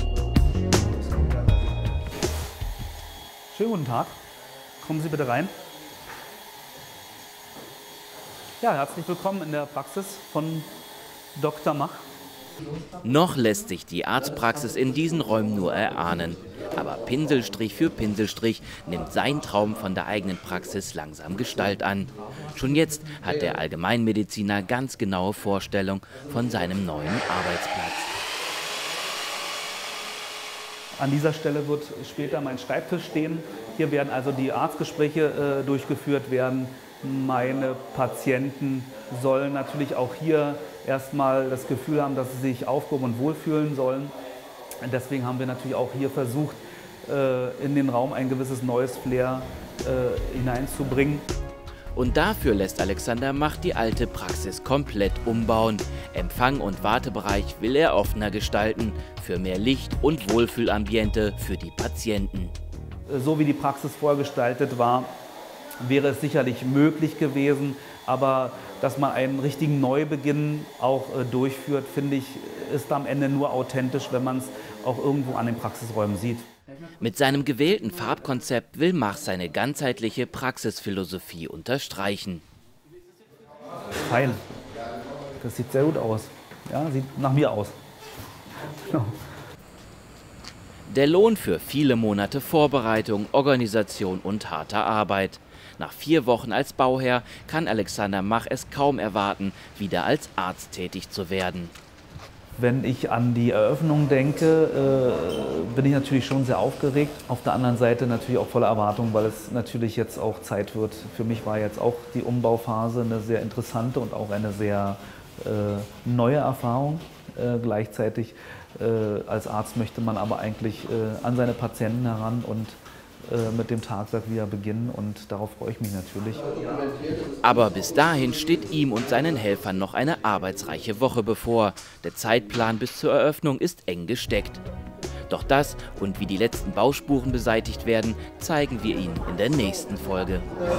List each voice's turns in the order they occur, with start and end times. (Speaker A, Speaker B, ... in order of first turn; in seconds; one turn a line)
Speaker A: 3.5-4.2
Speaker A: 4.8-5.5
Speaker A: 8.6-10.7
Speaker A: 11.3-12.0
Speaker B: 13.0-28.1
Speaker A: 31.0-44.1
Speaker A: 44.8-51.3
Speaker B: 51.9-62.5
Speaker A: 63.1-65.1
Speaker A: 65.8-76.5
Speaker B: 77.0-82.4
Speaker A: 84.0-84.4
Speaker A: 85.4-87.8
Speaker A: 88.8-89.2
Speaker B: 90.9-101.7
Speaker A: 102.6-126.5
Speaker B: 127.4-134.6
Speaker B: 135.3-140.4